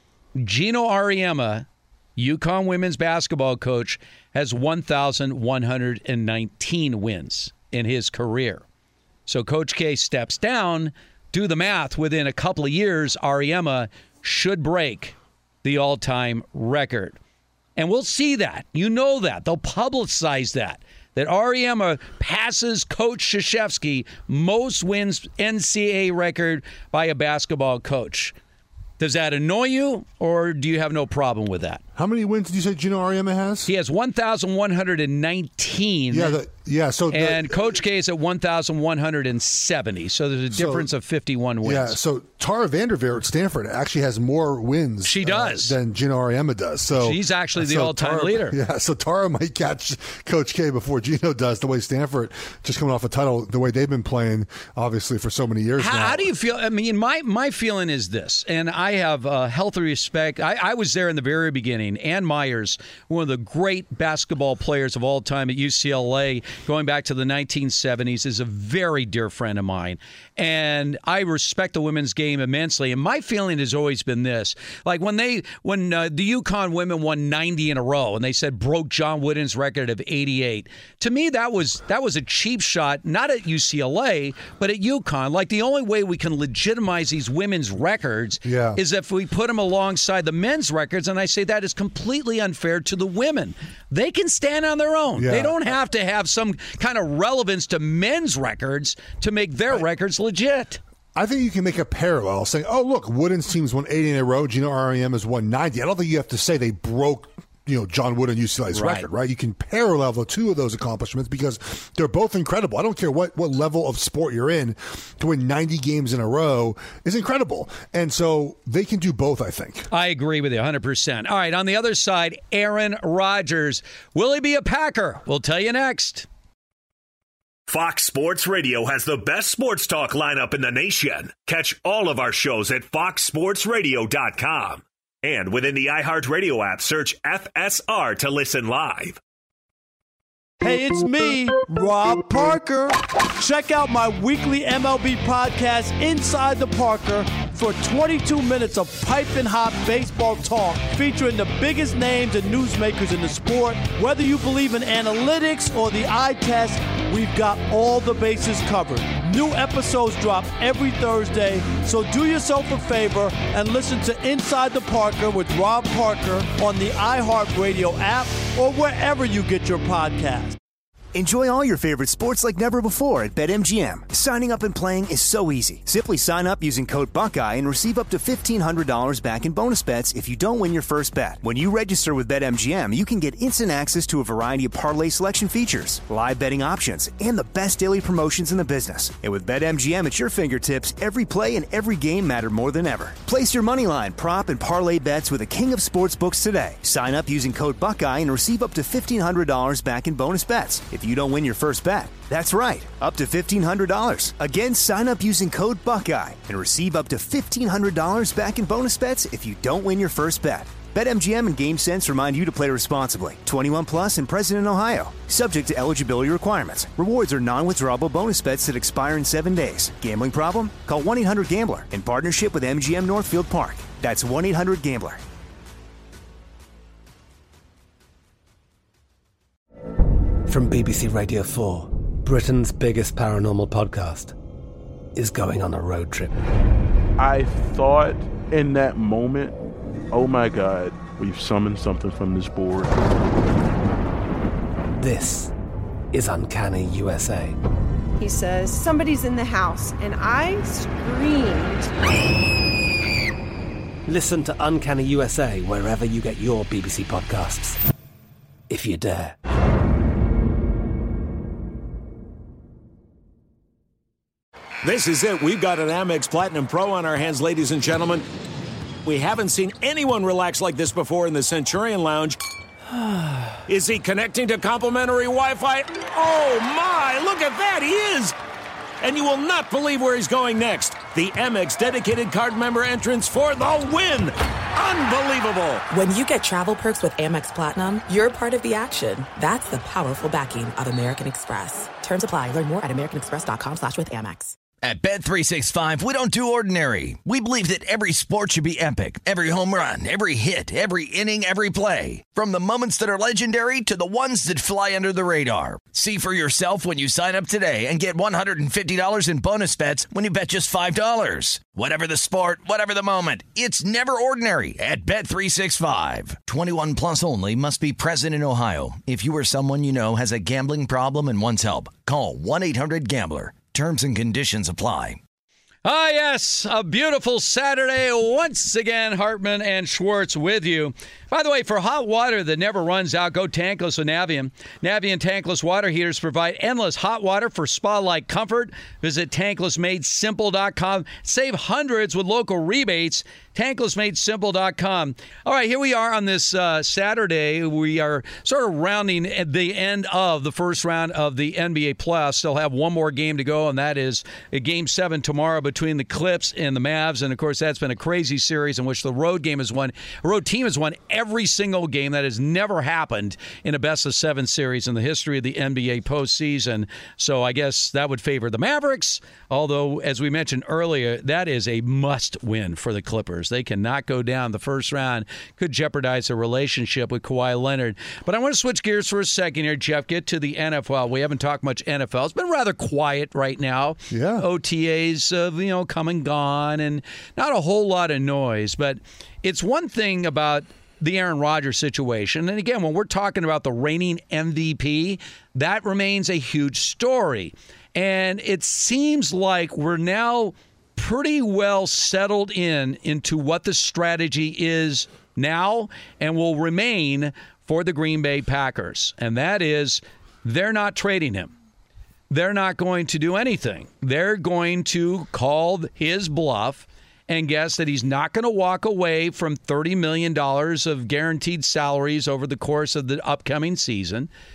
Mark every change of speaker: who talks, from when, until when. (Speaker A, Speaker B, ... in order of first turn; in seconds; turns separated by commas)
Speaker A: 0.4-8.6, Speaker A: 9.3-17.2, Speaker A: 17.8-28.4, Speaker A: 29.0-31.8, Speaker B: 31.9-33.7, Speaker A: 33.7-36.4, Speaker B: 36.1-37.8, Speaker A: 37.1-42.0, Speaker B: 40.5-40.9, Speaker B: 41.6-56.3, Speaker A: 45.0-45.8, Speaker A: 47.0-48.6, Speaker A: 55.8-100.8, Speaker B: 88.4-88.8, Speaker B: 95.2-95.7, Speaker B: 101.2-119.9, Speaker A: 108.7-109.1, Speaker A: 119.9-126.3, Speaker C: 127.7-139.2, Speaker D: 140.6-170.6, Speaker E: 171.1-225.2, Speaker F: 230.5-234.3, Speaker F: 235.2-236.4, Speaker G: 237.2-239.6, Speaker G: 240.1-243.1, Speaker F: 245.0-245.5, Speaker F: 246.1-247.6, Speaker H: 248.2-251.9, Speaker F: 254.1-257.8, Speaker F: 258.7-259.4, Speaker I: 264.8-268.3, Speaker I: 269.1-272.4, Speaker I: 273.7-278.4, Speaker I: 279.0-285.8, Speaker J: 285.9-294.5, Speaker K: 294.8-325.2, Speaker A: 325.9-411.5, Speaker B: 384.1-384.5, Speaker A: 412.3-424.3